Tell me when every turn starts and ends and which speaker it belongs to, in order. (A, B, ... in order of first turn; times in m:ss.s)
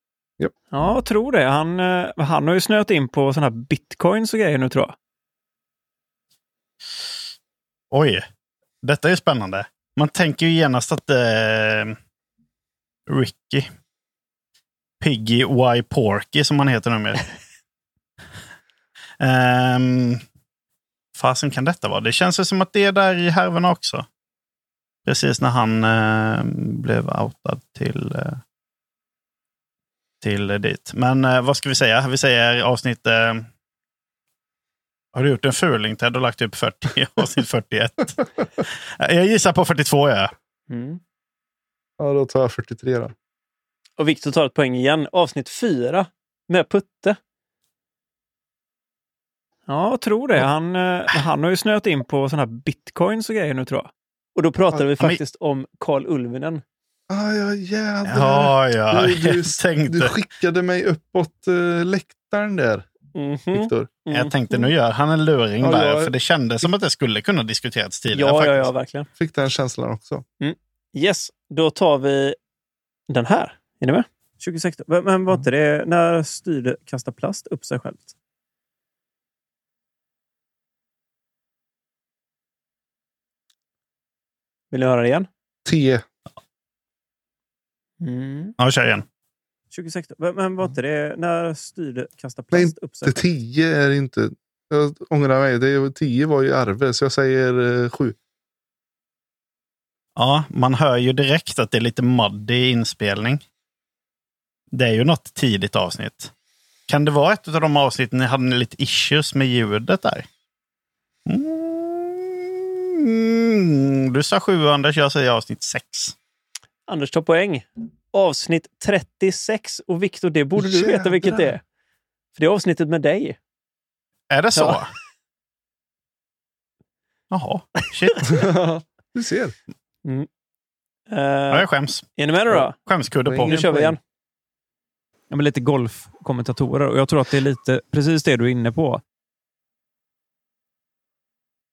0:00.7-0:04.9 A
0:07.9-0:08.2 B
0:08.8-0:12.0 B
0:13.1-0:13.7 B
0:15.0-0:17.3 B
0:19.2-0:20.2 B
0:21.2-0:24.0 B
0:25.0-0:28.4 B
0:30.2-0:33.5 B
0:35.1-0:40.3 B
0:40.7-0:41.0 A
0:42.0-0:43.1 C
0:44.0-0:47.2 A
0:49.7-0:56.6 A
0:57.1-1:02.9 C
0:58.1-1:00.1 B
1:03.1-1:04.6 A
1:03.5-1:03.9 C
1:04.1-1:08.7 B
1:05.6-1:06.1 C
1:08.1-1:09.1 A
1:09.2-1:10.2 C
1:10.4-1:12.4 A
1:13.1-1:18.1 A
1:24.7-1:25.3 A
1:25.6-1:26.0 C
1:28.0-1:28.5 A
1:28.6-1:29.0 B
1:29.7-1:33.2 A
1:32.5-1:38.2 C
1:40.2-1:43.4 B
1:44.7-1:46.3 B
1:46.9-1:50.3 B
1:51.2-1:56.1 B
1:56.9-2:01.6 A
2:00.6-2:01.5 C
2:02.3-2:03.4 A
2:04.3-2:04.9 B
2:07.3-2:08.4 B
2:08.2-2:09.5 C
2:11.1-2:12.8 A
2:11.5-2:13.8 B
2:13.2-2:13.9 C
2:13.4-2:14.0 A
2:15.3-2:19.0 A